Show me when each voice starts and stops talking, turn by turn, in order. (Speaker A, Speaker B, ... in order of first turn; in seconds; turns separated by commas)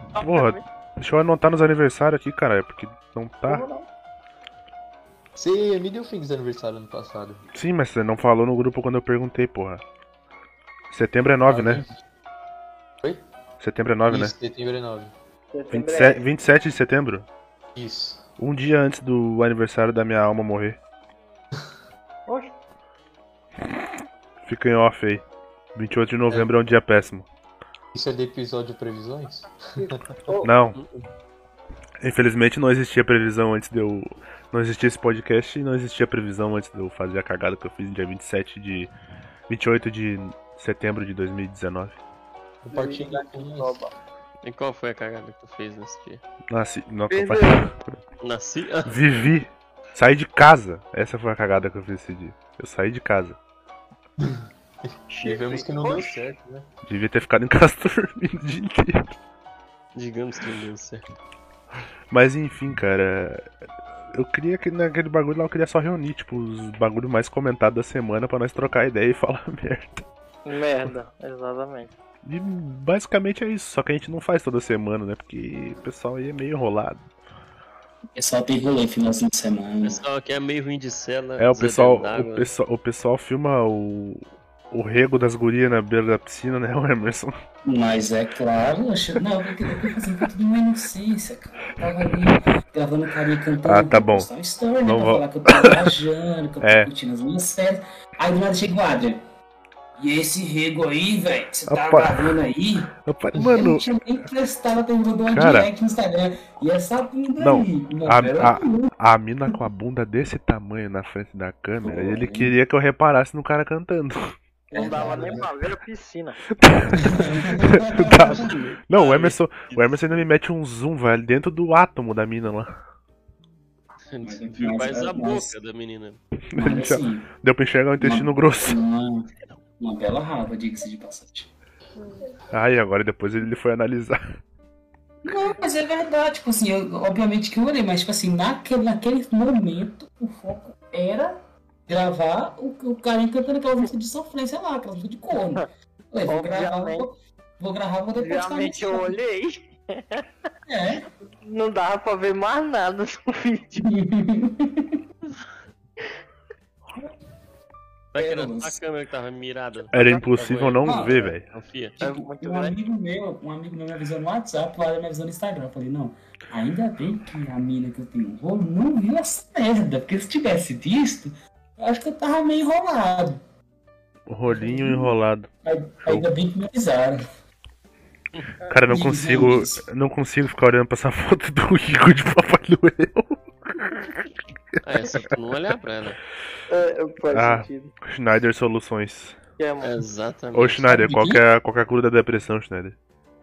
Speaker A: 0.1-0.6, Speaker B: 0.2-3.7, Speaker A: 3.5-3.9, Speaker C: 5.3-7.4, Speaker B: 7.5-9.8, Speaker B: 10.9-11.8, Speaker C: 11.4-12.0, Speaker B: 13.6-14.3, Speaker C: 14.1-15.1, Speaker A: 15.5-16.2, Speaker B: 15.7-17.3, Speaker C: 17.8-18.2, Speaker B: 18.4-20.8, Speaker A: 22.3-22.5, Speaker B: 24.4-27.3, Speaker C: 27.9-30.1, Speaker A: 29.8-30.5, Speaker B: 30.4-30.8, Speaker B: 32.0-38.9, Speaker B: 39.5-42.0, Speaker C: 42.6-43.8, Speaker A: 42.7-43.9, Speaker D: 44.4-46.2, Speaker B: 46.5-48.0, Speaker A: 47.1-47.7, Speaker D: 48.2-49.0, Speaker B: 48.9-53.4, Speaker C: 54.2-54.5, Speaker A: 55.1-56.2, Speaker C: 55.2-56.7, Speaker B: 56.9-59.1, Speaker D: 60.0-61.0, Speaker B: 62.1-63.5, Speaker B: 64.1-70.0, Speaker A: 70.5-71.9, Speaker B: 72.2-77.0, Speaker E: 78.2-80.0, Speaker D: 79.8-82.5, Speaker B: 81.4-87.3, Speaker E: 87.7-99.2, Speaker B: 92.1-92.4, Speaker B: 93.7-94.3, Speaker B: 94.8-95.9, Speaker B: 96.6-96.9, Speaker E: 100.0-108.9, Speaker B: 101.7-102.3, Speaker B: 103.0-103.9, Speaker B: 105.3-105.7, Speaker B: 107.4-114.3, Speaker E: 111.8-112.5, Speaker E: 114.7-115.4, Speaker A: 114.7-116.4, Speaker B: 116.6-122.8, Speaker C: 117.0-117.5, Speaker E: 117.0-118.6, Speaker D: 118.9-120.2, Speaker D: 124.1-126.2, Speaker E: 124.2-125.5, Speaker B: 126.5-128.8, Speaker E: 126.6-127.3, Speaker E: 128.0-129.3, Speaker E: 129.8-131.5, Speaker B: 132.5-134.2, Speaker E: 135.2-149.2, Speaker A: 146.3-147.1, Speaker A: 148.2-150.2, Speaker E: 150.7-151.1, Speaker A: 151.4-153.9, Speaker E: 153.9-155.0, Speaker D: 158.1-161.9, Speaker E: 158.2-158.8, Speaker B: 159.9-161.5, Speaker E: 160.8-161.3, Speaker E: 162.0-173.4, Speaker A: 162.0-162.8, Speaker B: 174.3-175.5, Speaker E: 174.5-177.2, Speaker B: 178.7-184.1, Speaker E: 178.9-179.8, Speaker D: 184.8-186.2, Speaker A: 186.7-187.9, Speaker B: 187.3-189.4, Speaker A: 189.6-190.0, Speaker D: 189.8-190.8, Speaker B: 190.5-193.0, Speaker E: 190.9-191.4